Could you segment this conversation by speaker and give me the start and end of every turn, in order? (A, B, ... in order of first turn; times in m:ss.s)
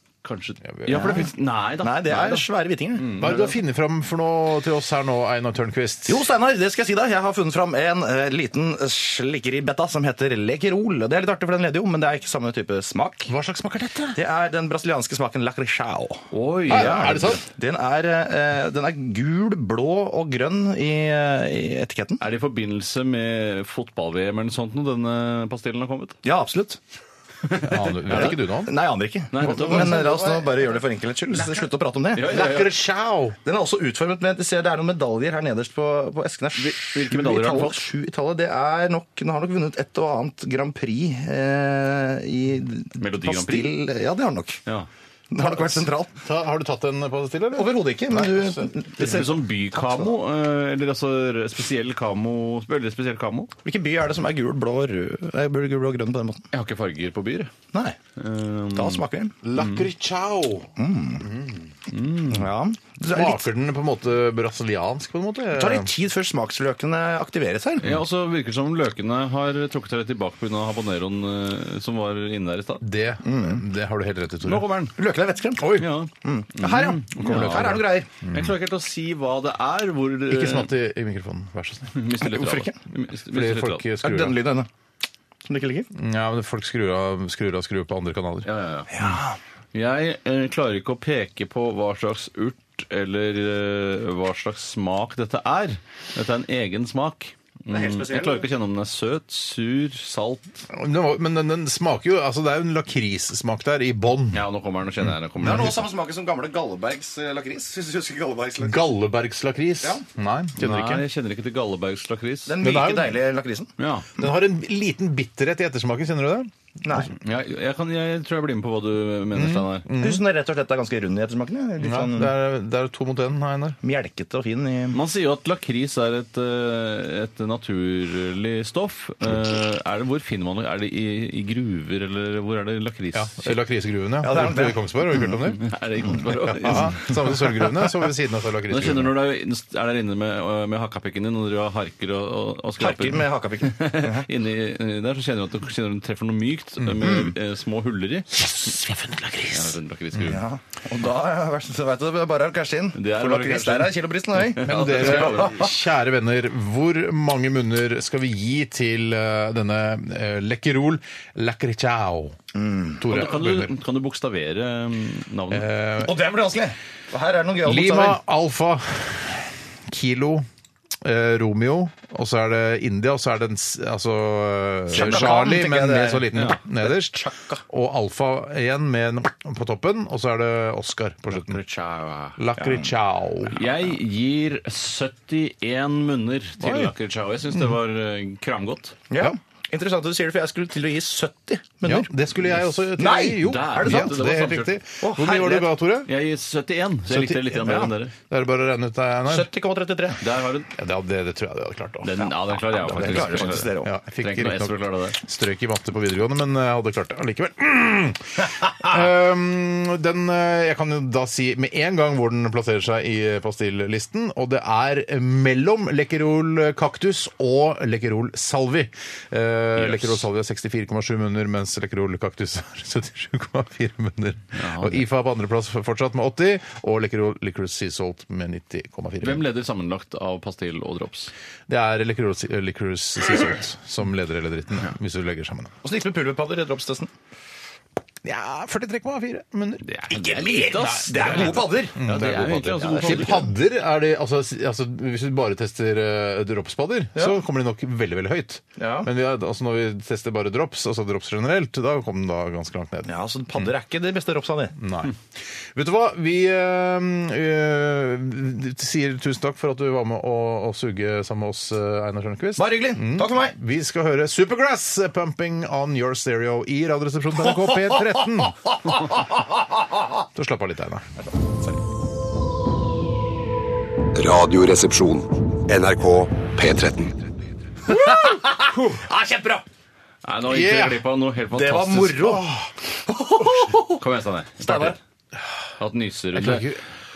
0:00.2-0:03.6 A
0:00.7-0:01.2 B
0:00.9-0:01.2 C
0:01.8-0:03.1 C
0:03.2-0:06.3 B
0:06.1-0:13.3 C
0:13.3-0:14.2 B
0:14.1-0:22.2 C
0:16.3-0:17.4 A
0:16.7-0:17.4 B
0:22.2-0:26.2 A
0:26.2-0:26.8 C
0:27.4-0:28.4 A
0:27.6-0:28.7 B
0:28.1-0:32.4 C
0:29.3-0:30.5 A
0:32.1-0:32.7 A
0:32.2-0:33.4 B
0:33.4-0:44.6 C
0:36.6-0:37.8 A
0:43.0-0:43.7 A
0:45.3-0:46.2 C
0:45.4-0:48.6 B
0:47.5-0:50.1 C
0:49.0-0:53.5 A
0:53.6-0:56.5 C
0:56.5-0:57.5 A
0:58.2-0:59.0 A
0:58.7-0:59.4 C
0:59.4-1:00.7 B
0:59.6-0:59.8 A
1:00.8-1:01.3 C
1:01.2-1:01.6 B
1:01.9-1:02.5 A
1:02.3-1:03.4 C
1:03.1-1:05.9 B
1:05.5-1:08.0 C
1:07.8-1:12.8 A
1:12.8-1:14.6 B
1:13.2-1:13.6 C
1:14.4-1:14.9 A
1:15.0-1:18.1 C
1:15.6-1:15.9 B
1:15.7-1:20.7 A
1:17.3-1:17.6 B
1:18.2-1:18.5 B
1:20.3-1:21.9 B
1:21.9-1:23.8 A
1:22.2-1:22.8 C
1:23.3-1:24.4 B
1:24.0-1:24.7 C
1:25.4-1:25.9 C
1:25.9-1:28.5 B
1:28.4-1:29.0 A
1:28.9-1:29.4 C
1:29.7-1:40.6 A
1:37.7-1:38.5 C
1:40.7-1:44.4 B
1:44.3-1:45.8 A
1:45.4-1:45.8 B
1:45.4-1:48.9 C
1:48.6-1:51.0 B
1:50.6-1:52.5 A
1:52.4-1:53.7 C
1:52.6-1:53.2 B
1:53.8-1:54.1 A
1:54.2-1:56.5 B
1:56.8-1:57.1 C
1:57.1-1:59.8 A
1:59.3-2:00.2 B
2:00.0-2:02.3 C
2:01.8-2:03.8 B
2:03.8-2:05.0 C
2:04.9-2:13.5 A
2:13.1-2:15.6 B
2:14.2-2:15.3 C
2:15.6-2:17.1 A
2:16.5-2:19.1 B
2:18.7-2:28.5 A
2:22.8-2:24.3 C
2:27.0-2:27.3 C
2:28.4-2:29.7 B
2:29.5-2:30.4 A
2:30.2-2:35.7 C
2:32.9-2:35.7 A
2:34.6-2:42.4 B
2:42.5-2:43.0 C
2:43.0-2:43.7 B
2:43.1-2:45.7 A
2:45.5-2:46.1 B
2:46.0-2:48.2 C
2:47.6-2:50.5 B
2:51.0-3:01.6 B
2:54.9-2:57.6 C
3:01.3-3:02.4 A
3:02.4-3:03.6 B
3:02.6-3:02.9 C
3:03.5-3:09.0 A
3:06.6-3:06.9 B
3:09.1-3:12.1 C
3:11.8-3:16.1 B
3:13.0-3:14.4 C
3:13.4-3:14.7 A
3:15.0-3:15.7 C
3:16.1-3:18.1 A
3:17.1-3:19.5 B
3:17.6-3:17.9 C
3:19.3-3:20.2 C
3:20.2-3:20.7 A
3:20.7-3:22.2 B
3:22.0-3:25.2 A
3:22.2-3:23.9 C
3:23.0-3:49.4 B
3:39.8-3:40.2 A
3:44.5-3:45.0 A
3:49.2-3:51.3 A
3:51.7-3:55.7 B
3:55.8-3:57.1 C
3:58.2-3:59.8 B
3:59.8-4:03.5 A
4:00.1-4:02.0 C
4:00.8-4:13.6 B
4:02.5-4:03.4 C
4:08.8-4:09.1 C
4:13.0-4:14.8 C
4:14.8-4:15.2 B
4:15.7-4:29.2 B
4:22.6-4:23.5 C
4:27.6-4:28.1 C
4:30.3-4:31.1 B
4:34.1-4:37.2 D
4:37.9-4:38.8 B
4:38.1-4:39.6 C
4:40.2-4:42.4 A
4:40.5-4:41.0 B
4:41.5-4:42.4 C
4:42.2-4:42.7 B
4:43.1-4:44.0 C
4:44.0-4:45.0 A
4:44.6-4:45.0 C
4:45.8-4:46.7 A
4:46.3-4:46.8 B